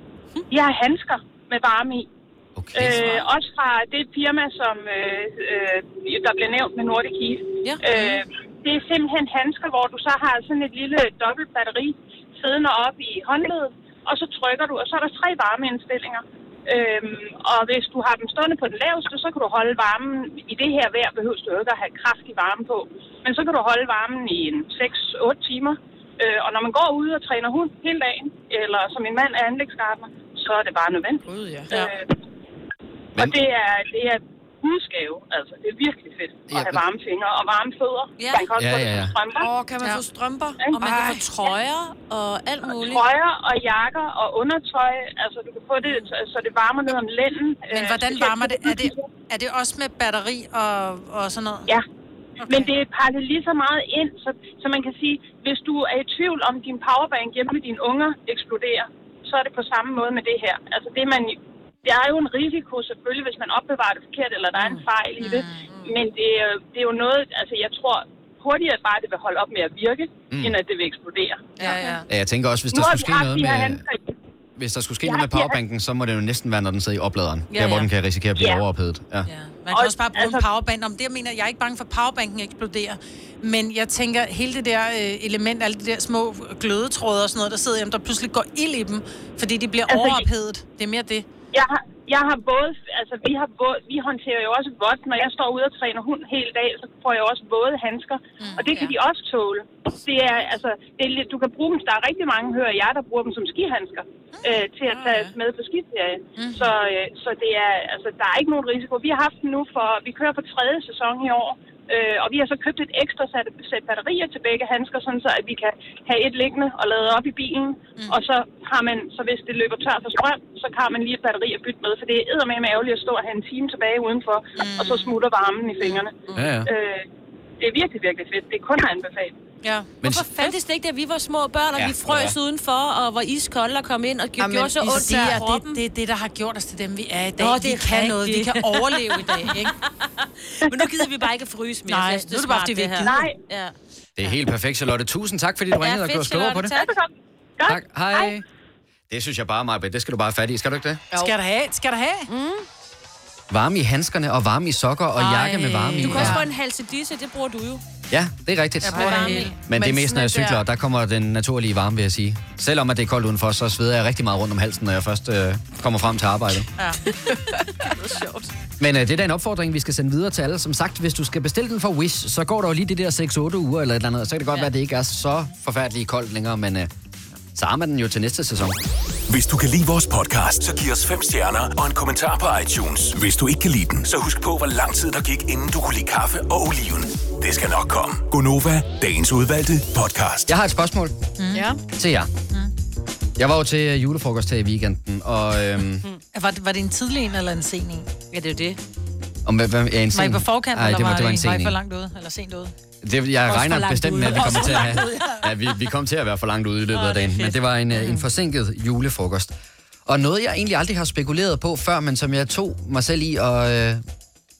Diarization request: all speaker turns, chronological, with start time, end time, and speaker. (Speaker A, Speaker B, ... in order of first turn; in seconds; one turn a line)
Speaker A: 0.5-2.1
Speaker B: 2.5-3.1
Speaker A: 2.7-32.1
Speaker C: 7.7-8.2
Speaker D: 31.2-31.7
Speaker A: 33.1-39.5
Speaker B: 36.5-36.8
Speaker E: 38.2-38.5
Speaker B: 38.5-39.2
Speaker D: 39.4-41.2
Speaker E: 40.7-43.0
Speaker C: 40.8-41.5
Speaker A: 42.8-49.1
Speaker C: 47.7-51.7
Speaker C: 52.4-52.7
Speaker A: 52.5-71.5
Speaker C: 65.2-65.6
Speaker D: 65.6-66.0
Speaker B: 70.3-70.5
Speaker C: 71.6-72.0
Speaker D: 71.6-71.9
Speaker B: 72.1-73.8
Speaker A: 72.7-74.1
Speaker B: 74.5-79.3
Speaker A: 75.0-75.6
Speaker E: 77.5-77.9
Speaker A: 78.4-78.6
Speaker C: 79.2-91.2
Speaker A: 79.7-80.4
Speaker A: 89.9-90.2
Speaker A: 91.5-127.0
Speaker C: 98.4-98.7
Speaker E: 98.7-98.9
Speaker D: 105.0-105.3
Speaker C: 106.3-106.7
Speaker C: 124.6-125.2
Speaker B: 126.3-126.7
Speaker A: 127.6-129.3
Speaker C: 129.6-129.9
Speaker B: 130.0-130.3
Speaker E: 130.0-135.8
Speaker B: 131.8-132.3
Speaker D: 134.4-135.4
Speaker C: 135.2-139.7
Speaker E: 137.4-143.7
Speaker C: 141.9-143.3
Speaker A: 143.0-143.3
Speaker B: 144.2-146.8
Speaker E: 145.8-146.9
Speaker A: 146.7-148.4
Speaker B: 147.6-148.4
Speaker B: 149.1-151.0
Speaker C: 151.1-152.3
Speaker E: 152.3-152.7
Speaker B: 153.5-156.4
Speaker E: 155.2-157.8
Speaker D: 155.6-156.4
Speaker B: 158.1-166.7
Speaker C: 158.8-159.5
Speaker D: 158.9-160.6
Speaker E: 158.9-159.5
Speaker D: 167.3-168.0
Speaker E: 167.8-168.5
Speaker B: 168.8-176.9
Speaker B: 177.5-178.8
Speaker F: 179.3-190.5
Speaker B: 190.5-191.2
Speaker C: 191.4-191.7
Speaker D: 191.5-191.8
Speaker B: 191.9-192.3
Speaker B: 193.4-196.0
Speaker C: 196.3-198.1
Speaker E: 198.3-198.8
Speaker B: 199.4-201.8
Speaker C: 200.1-202.7
Speaker B: 203.0-209.5
Speaker E: 203.5-205.4
Speaker C: 204.8-205.2
Speaker E: 206.9-208.2
Speaker B: 210.1-214.0